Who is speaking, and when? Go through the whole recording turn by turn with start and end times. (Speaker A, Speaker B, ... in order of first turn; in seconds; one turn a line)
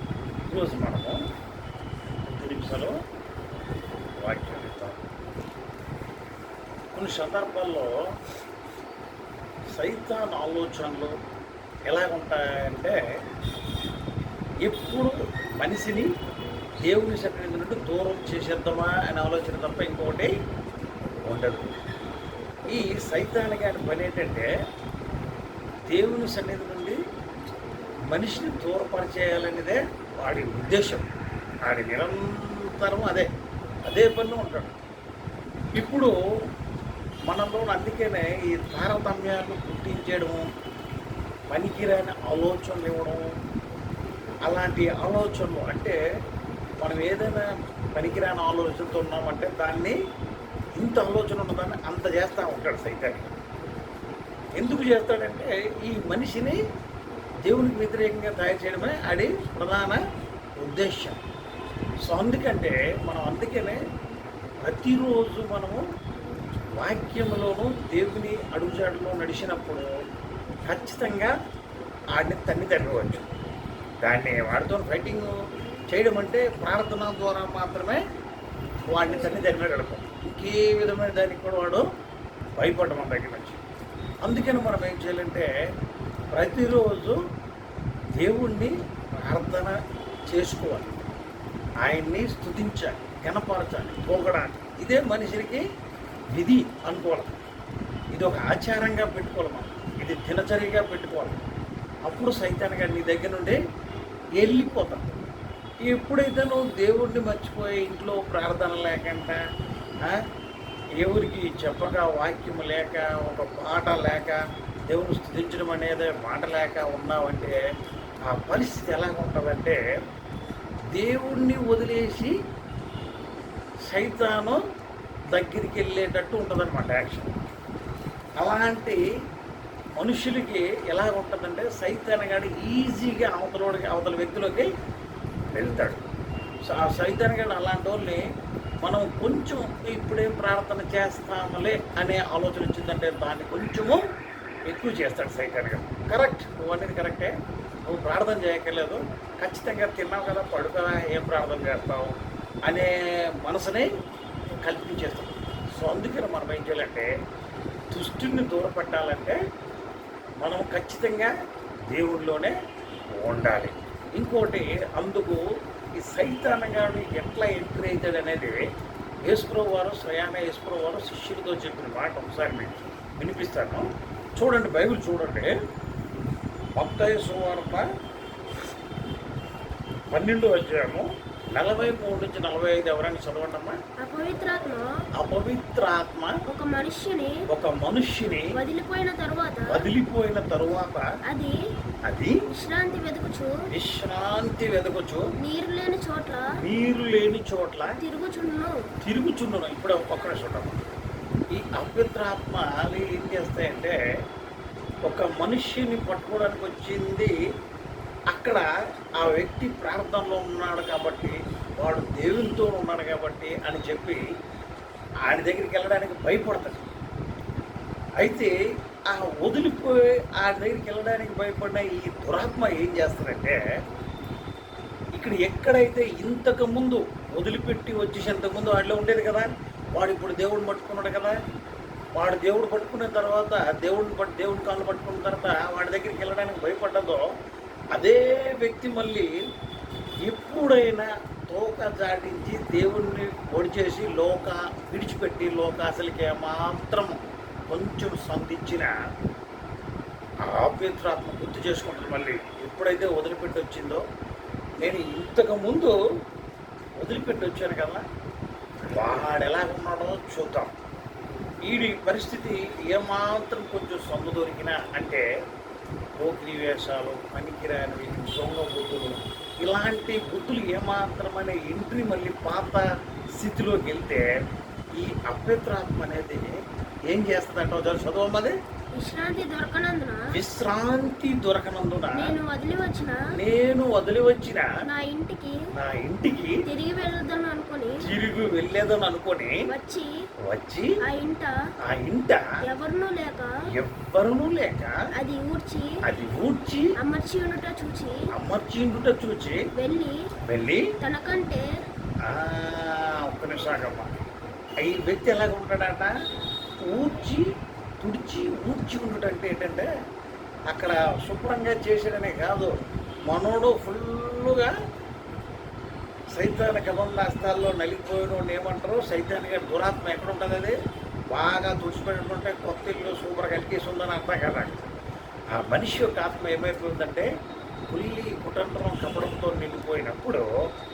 Speaker A: 0.5-1.2
Speaker A: 2.3-2.9
Speaker A: 4.2-5.0
Speaker A: 7.0-7.9
Speaker A: 9.7-11.1
Speaker A: 11.9-13.0
Speaker A: 14.7-16.1
Speaker A: 16.9-20.3
Speaker A: 21.3-21.6
Speaker A: 22.7-24.5
Speaker A: 25.9-27.0
Speaker A: 28.1-31.1
Speaker A: 31.7-33.3
Speaker A: 33.9-34.8
Speaker A: 35.7-36.1
Speaker A: 37.3-40.4
Speaker A: 41.5-43.2
Speaker A: 44.5-46.0
Speaker A: 46.8-50.0
Speaker A: 50.8-53.3
Speaker A: 54.6-56.6
Speaker A: 57.5-60.0
Speaker A: 60.6-61.2
Speaker A: 62.1-63.8
Speaker A: 64.6-65.8
Speaker A: 66.8-69.9
Speaker A: 70.7-71.3
Speaker A: 72.2-73.3
Speaker A: 74.0-75.3
Speaker A: 75.9-78.0
Speaker A: 78.9-81.8
Speaker A: 82.6-83.6
Speaker A: 84.2-85.5
Speaker A: 86.3-87.2
Speaker A: 88.2-89.8
Speaker A: 90.3-90.9
Speaker A: 91.8-95.6
Speaker A: 96.3-97.3
Speaker A: 98.2-101.4
Speaker A: 102.1-103.6
Speaker A: 104.4-105.1
Speaker A: 105.9-109.4
Speaker A: 111.0-117.6
Speaker A: 118.3-119.8
Speaker A: 120.9-122.3
Speaker A: 123.9-124.6
Speaker A: 125.3-127.3
Speaker A: 128.4-129.0
Speaker A: 130.0-134.7
Speaker A: 135.5-136.0
Speaker A: 136.7-138.2
Speaker A: 138.8-144.0
Speaker A: 144.7-147.3
Speaker A: 147.9-152.9
Speaker A: 153.4-153.9
Speaker A: 154.6-157.1
Speaker A: 157.9-159.4
Speaker A: 160.4-161.3
Speaker A: 161.9-162.6
Speaker A: 163.2-165.4
Speaker A: 166.0-168.6
Speaker A: 169.3-175.5
Speaker A: 176.8-177.8
Speaker A: 180.1-183.8
Speaker B: 184.0-184.9
Speaker A: 185.2-186.4
Speaker B: 186.5-187.4
Speaker A: 187.5-188.5
Speaker B: 188.6-189.8
Speaker A: 189.7-191.0
Speaker B: 191.3-191.6
Speaker A: 192.1-192.4
Speaker B: 192.5-193.6
Speaker A: 193.7-195.3
Speaker B: 195.4-196.5
Speaker A: 196.6-198.0
Speaker B: 198.0-198.8
Speaker A: 199.0-200.8
Speaker A: 201.6-204.0
Speaker A: 205.1-207.3
Speaker A: 208.3-208.7
Speaker A: 209.2-214.2
Speaker A: 215.3-216.9
Speaker A: 218.2-218.5
Speaker A: 219.1-223.6
Speaker A: 225.2-231.4
Speaker A: 232.2-237.2
Speaker A: 237.9-239.3
Speaker A: 240.3-247.2
Speaker A: 247.7-248.9
Speaker A: 250.5-254.0
Speaker A: 254.8-255.9
Speaker A: 257.0-258.0
Speaker A: 258.9-260.7
Speaker A: 261.7-265.2
Speaker A: 266.2-272.9
Speaker A: 273.4-274.3
Speaker A: 275.0-276.5
Speaker A: 277.1-278.6
Speaker B: 279.0-280.3
Speaker A: 280.3-282.3
Speaker B: 282.1-283.3
Speaker A: 283.3-284.7
Speaker B: 284.9-285.7
Speaker A: 285.7-286.6
Speaker B: 286.7-288.0
Speaker A: 288.0-289.6
Speaker B: 289.7-290.1
Speaker A: 290.5-290.9
Speaker B: 291.1-291.5
Speaker A: 291.9-292.4
Speaker B: 292.7-293.5
Speaker A: 293.7-294.9
Speaker B: 295.2-296.0
Speaker A: 296.1-296.9
Speaker B: 297.0-298.2
Speaker A: 298.3-299.6
Speaker B: 299.8-300.2
Speaker A: 300.5-300.8
Speaker B: 301.0-301.6
Speaker A: 302.3-304.1
Speaker A: 304.8-306.1
Speaker A: 306.9-307.4
Speaker A: 308.0-309.9
Speaker A: 310.7-312.8
Speaker A: 313.3-314.7
Speaker A: 316.4-320.8
Speaker A: 321.3-324.9
Speaker A: 325.6-327.3
Speaker A: 327.9-330.4